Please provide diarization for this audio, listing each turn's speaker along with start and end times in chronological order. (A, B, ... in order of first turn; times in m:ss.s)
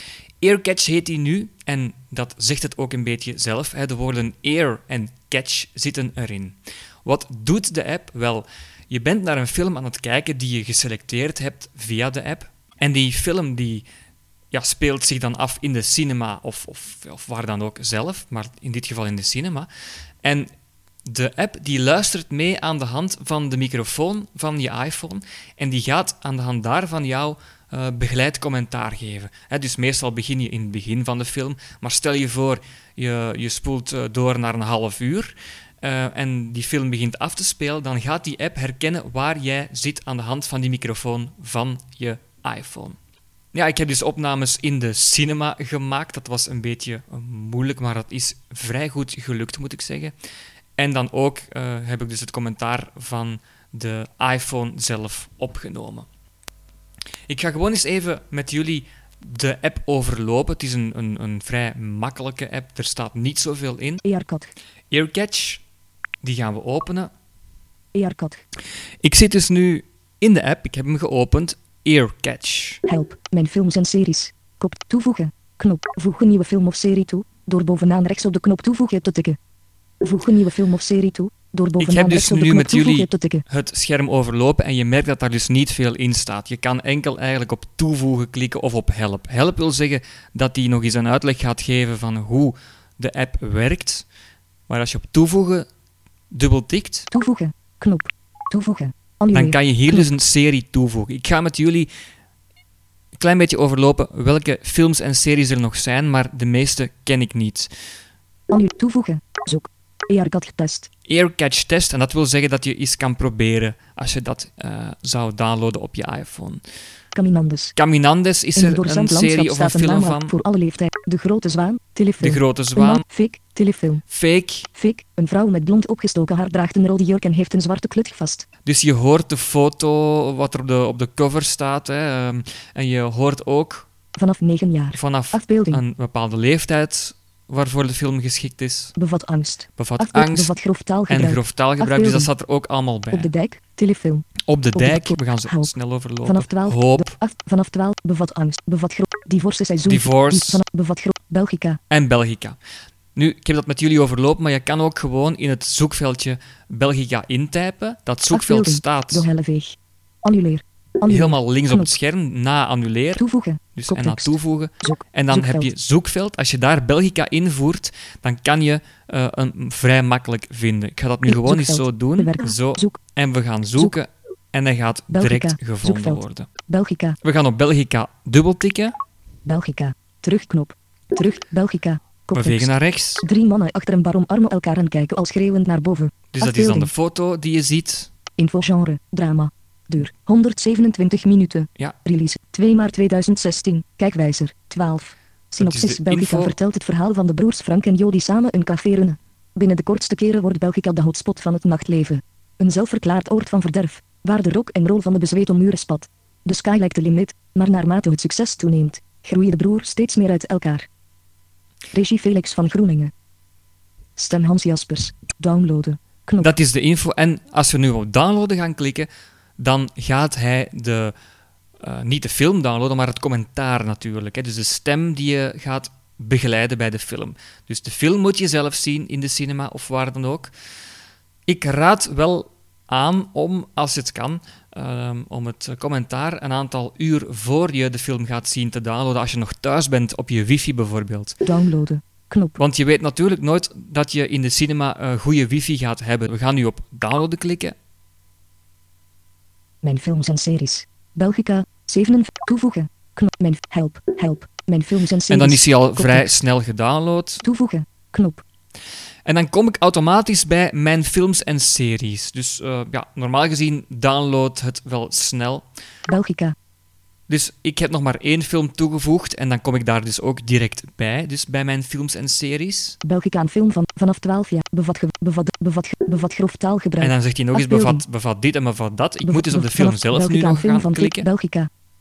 0:00.4-0:13.8 A
0:14.5-0:19.7 A
0:20.2-0:20.5 A
0:21.0-0:43.0 A
0:43.5-0:50.1 A
0:50.8-0:56.0 A
0:57.3-1:04.0 A
1:04.0-1:04.5 B
1:04.9-1:05.6 A
1:06.2-1:07.1 A
1:07.9-1:08.4 B
1:09.0-1:12.8 A
1:12.9-1:19.4 B
1:20.0-1:23.4 B
1:21.8-1:34.0 A
1:34.7-1:35.7 A
1:36.3-1:37.1 A
1:37.1-1:40.0 B
1:39.3-1:41.9 A
1:43.2-1:47.7 A
1:48.5-1:50.9 B
1:51.1-1:56.6 A
1:57.1-1:57.8 B
1:57.8-2:00.3 A
1:58.6-2:04.0 B
2:02.2-2:03.0 A
2:04.1-2:04.7 A
2:04.7-2:08.4 B
2:08.6-2:13.9 A
2:14.2-2:15.8 B
2:14.9-2:19.0 A
2:19.0-2:22.3 B
2:19.8-2:20.5 A
2:21.1-2:23.3 A
2:23.1-2:31.8 B
2:24.5-2:27.2 A
2:29.8-2:30.6 A
2:31.9-2:32.6 A
2:33.1-2:39.3 A
2:38.3-2:41.9 B
2:41.1-2:56.5 A
2:43.2-2:45.7 B
2:51.2-2:53.0 B
2:55.1-2:57.2 B
2:57.2-2:58.9 A
2:59.4-3:06.9 B
3:02.3-3:03.2 A
3:06.3-3:08.1 A
3:08.4-3:30.8 B
3:15.6-3:16.6 A
3:31.9-3:33.1 B
3:34.2-3:36.5 B
3:36.4-3:41.1 A
3:41.8-3:50.5 A
3:51.5-4:01.4 A
4:01.4-4:02.6 B
4:02.6-4:07.7 A
4:09.8-4:16.3 B
4:15.3-4:17.4 A
4:17.4-4:18.4 B
4:19.2-4:25.6 A
4:26.1-4:26.5 B
4:27.3-4:33.0 A
4:33.0-4:38.0 B
4:37.0-4:41.3 A
4:39.2-4:41.7 B